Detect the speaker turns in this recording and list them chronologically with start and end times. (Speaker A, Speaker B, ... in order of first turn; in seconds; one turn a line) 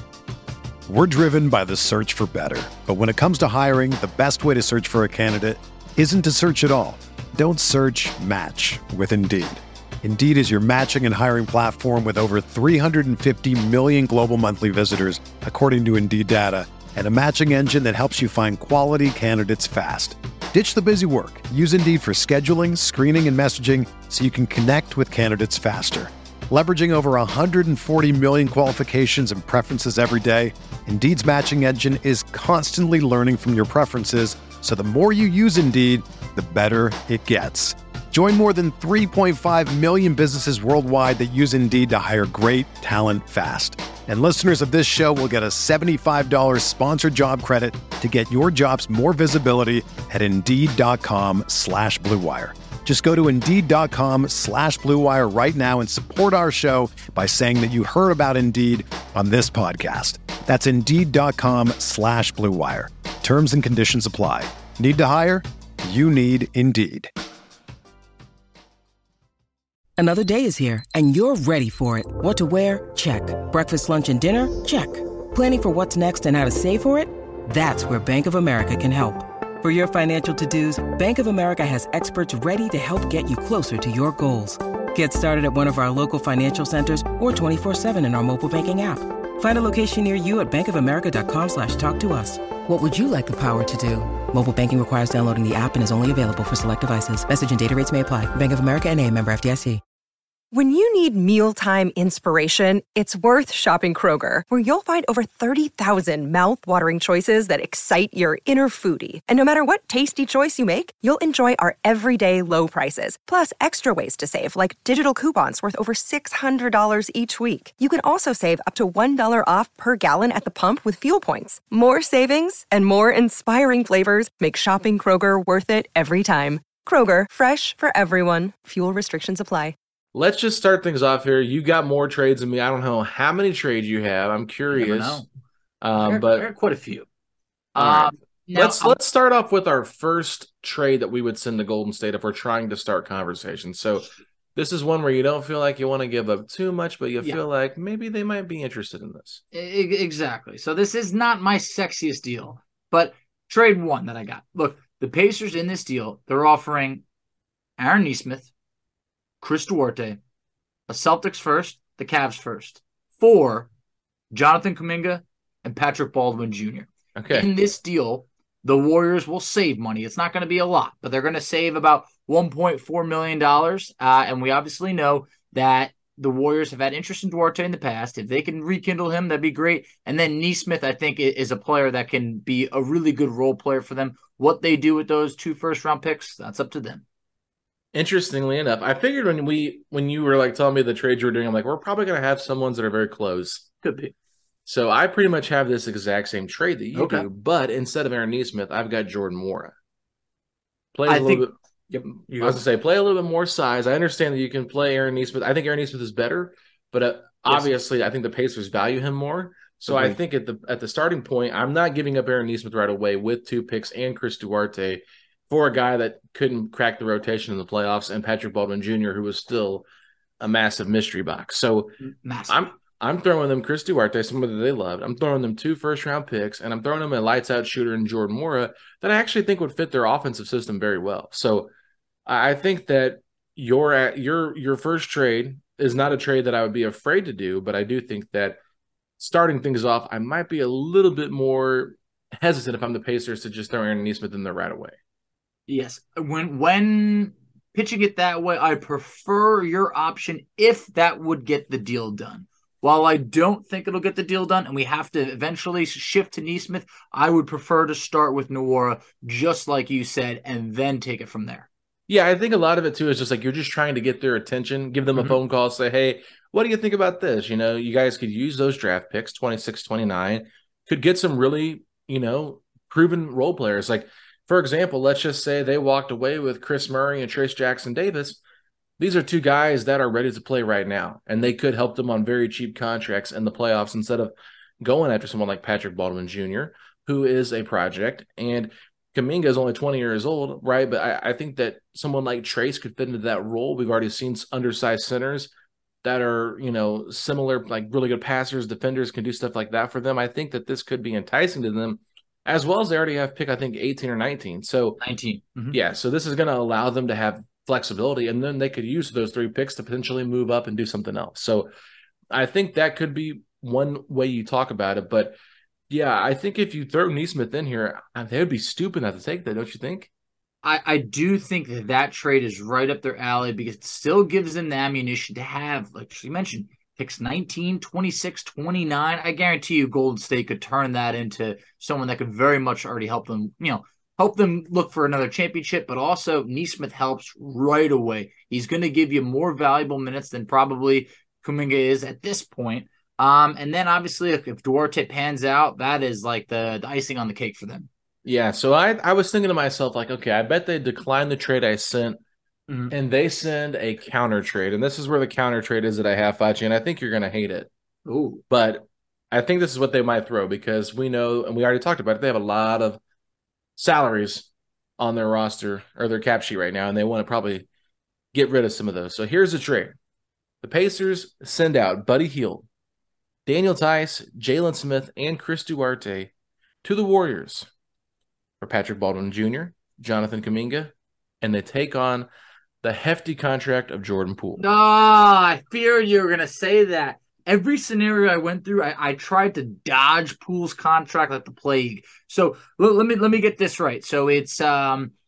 Speaker A: 0.9-67.1
Speaker B: 70.0-99.8
Speaker C: 100.5-129.7
Speaker D: 130.1-135.2
Speaker E: 134.7-135.2
Speaker D: 135.8-136.5
Speaker E: 136.0-137.1
Speaker E: 137.7-138.9
Speaker D: 137.8-149.4
Speaker E: 149.5-157.0
Speaker E: 157.8-158.5
Speaker E: 159.4-160.2
Speaker E: 160.9-163.7
Speaker E: 164.3-187.0
Speaker D: 167.1-167.5
Speaker D: 187.9-193.7
Speaker E: 193.8-194.1
Speaker D: 194.7-199.7
Speaker E: 196.9-197.2
Speaker D: 200.9-201.5
Speaker E: 201.1-202.6
Speaker D: 202.0-219.8
Speaker E: 209.9-210.2
Speaker D: 220.4-221.9
Speaker E: 222.0-222.7
Speaker D: 222.5-231.7
Speaker D: 232.2-238.6
Speaker D: 239.2-244.9
Speaker E: 245.7-261.7
Speaker D: 262.1-278.4
Speaker D: 279.0-295.5
Speaker D: 296.0-305.0
Speaker E: 305.0-305.8
Speaker D: 305.7-311.7
Speaker D: 312.3-315.4
Speaker D: 315.9-320.1
Speaker E: 320.6-347.9
Speaker D: 348.2-352.2
Speaker D: 352.9-357.7
Speaker E: 358.1-358.4
Speaker D: 358.5-363.0
Speaker D: 363.8-364.5
Speaker D: 365.0-367.6
Speaker D: 368.3-369.9
Speaker D: 370.6-372.6
Speaker D: 373.4-376.3
Speaker D: 376.8-377.7
Speaker D: 378.6-382.3
Speaker D: 382.8-384.6
Speaker E: 384.6-395.1